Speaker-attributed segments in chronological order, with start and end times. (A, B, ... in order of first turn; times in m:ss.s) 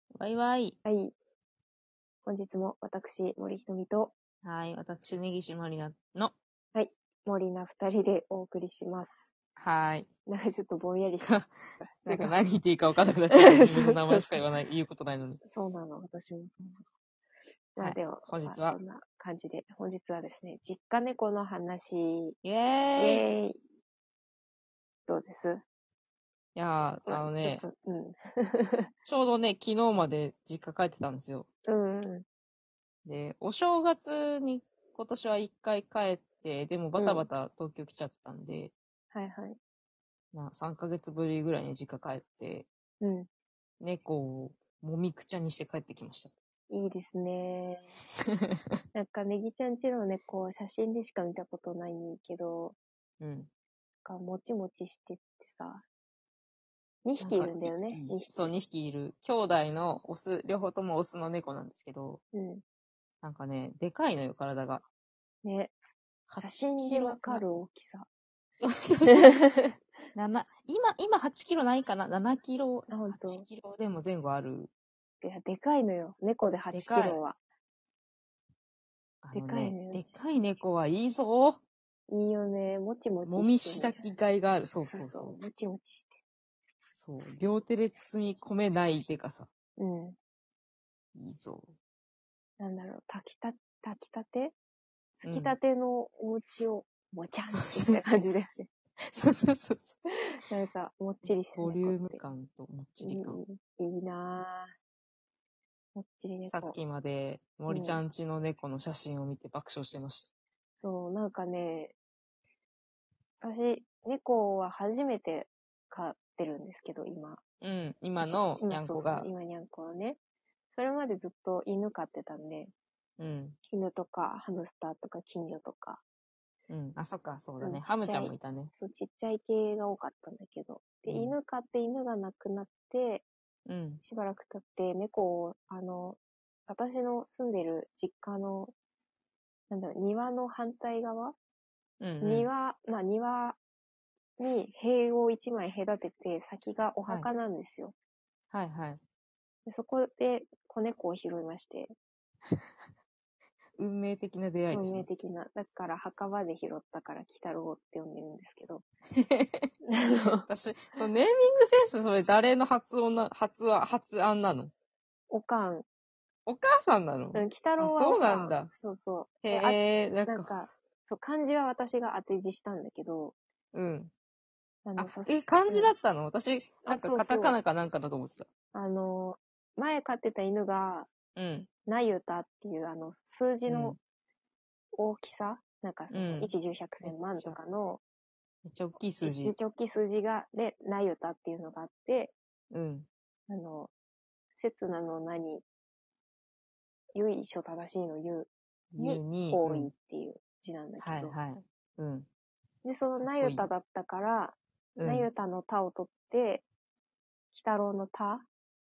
0:00.1-0:00.8 A
0:00.8-0:01.1 B
0:02.2-0:04.1 B
0:04.4-0:06.3 A
0:06.7-0:09.3 B
0:09.6-0:10.1 A
0:10.3-0:12.4 B
0:11.2-0:11.5 A
0:12.0-0:15.4 A
0:13.3-0:14.4 B
0:15.4-0:16.8 B
0:17.7-0:22.4 B
0:17.8-0:18.8 A
0:22.4-0:23.2 A
0:23.0-0:23.6 B
0:25.1-0:25.6 B
0:26.5-0:27.6 A
0:27.0-0:28.9 B
0:29.0-0:31.5 A
0:31.6-0:32.2 B
0:33.0-0:38.7 A
0:37.0-0:37.3 B
0:39.1-0:39.6 B
0:40.3-0:42.7 A
0:43.0-0:43.3 B
0:43.8-0:46.3 A
0:46.7-0:48.0 B
0:48.4-0:48.7 A
0:48.9-0:52.8 B
0:53.2-0:53.5 A
0:54.0-0:55.8 B
0:57.0-0:58.3 B
0:57.2-1:02.2 A
1:02.3-1:02.6 B
1:03.2-1:04.8 A
1:05.4-1:05.7 B
1:06.3-1:07.5 A
1:06.4-1:08.1 B
1:08.6-1:09.5 A
1:09.1-1:09.7 B
1:10.1-1:14.7 A
1:12.9-1:13.4 B
1:15.2-1:17.4 B
1:16.7-1:17.2 A
1:19.2-1:21.6 A
1:19.3-1:20.0 B
1:22.1-1:24.1 B
1:23.2-1:25.4 A
1:24.8-1:26.2 B
1:26.9-1:29.5 A
1:29.8-1:30.2 B
1:31.1-1:31.7 A
1:32.6-1:34.5 B
1:35.2-1:38.7 B
1:35.2-1:35.6 A
1:37.5-1:38.2 A
1:39.1-1:40.0 A
1:40.3-1:42.2 B
1:41.2-1:43.4 A
1:43.0-1:44.7 B
1:45.9-1:46.8 B
1:46.4-1:50.3 A
1:47.7-1:48.0 B
1:50.8-1:51.9 B
1:53.4-1:57.4 B
1:57.6-1:59.3 A
1:58.2-2:00.2 B
2:00.7-2:02.7 B
2:03.2-2:03.6 A
2:03.7-2:06.0 B
2:06.7-2:08.7 A
2:07.6-2:13.2 B
2:11.1-2:11.4 A
2:13.6-2:14.0 A
2:14.0-2:18.7 B
2:19.7-2:21.4 B
2:22.0-2:22.5 A
2:22.2-2:23.6 B
2:24.4-2:27.9 B
2:28.5-2:29.0 A
2:29.6-2:31.9 B
2:33.8-2:35.1 A
2:34.7-2:38.8 B
2:39.2-2:39.7 A
2:39.9-2:40.5 B
2:40.4-2:44.7 A
2:45.3-2:45.8 B
2:46.4-2:48.7 A
2:47.3-2:53.3 B
2:49.4-2:50.6 A
2:53.7-2:54.1 A
2:54.8-2:55.9 B
2:55.0-2:58.5 A
2:56.8-2:57.6 B
2:58.7-3:01.1 B
3:01.4-3:01.7 A
3:01.8-3:04.0 B
3:03.7-3:04.0 A
3:05.0-3:08.0 B
3:06.1-3:07.6 A
3:08.6-3:09.6 A
3:09.2-3:12.3 B
3:12.7-3:13.1 A
3:13.5-3:13.9 B
3:14.5-3:15.6 B
3:17.1-3:21.3 B
3:18.9-3:19.9 A
3:21.0-3:22.3 A
3:22.8-3:26.6 B
3:23.2-3:23.7 A
3:25.0-3:25.3 A
3:27.5-3:28.5 B